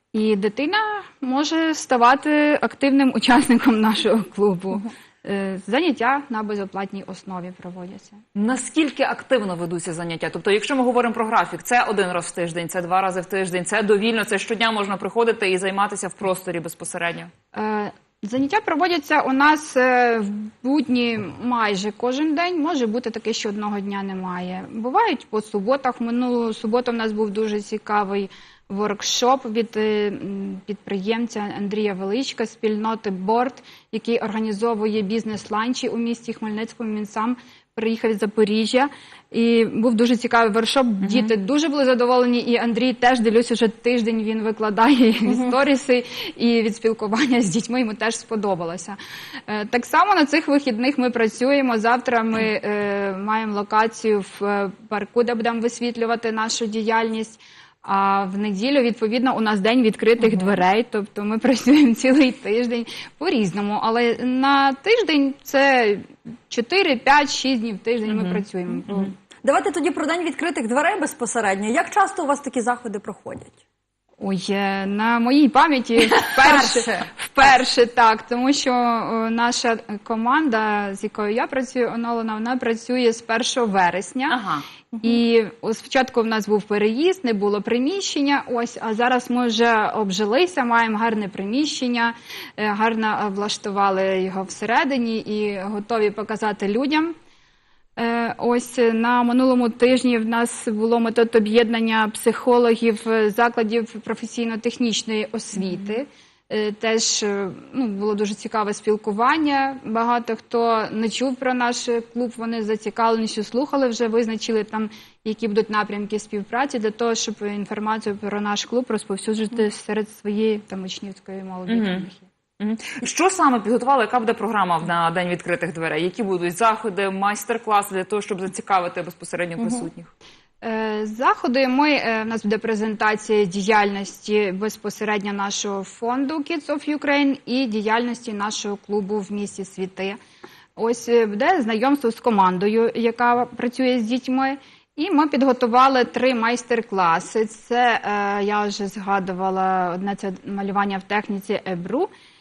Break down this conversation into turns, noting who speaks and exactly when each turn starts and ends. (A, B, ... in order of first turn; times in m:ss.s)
0:00.1-0:08.2 A
0:08.4-0:17.3 B
0:17.5-0:49.0 A
0:41.0-0:41.3 B
0:49.5-1:09.1 A
1:08.1-1:09.1 B
1:09.4-1:13.6 C
1:14.2-1:24.4 A
1:16.4-1:17.1 C
1:24.3-1:24.7 B
1:25.0-1:37.2 A
1:38.0-2:02.3 A
1:45.6-1:46.0 B
2:01.7-2:02.1 B
2:02.6-2:10.1 B
2:10.6-2:20.2 A
2:20.8-2:32.1 A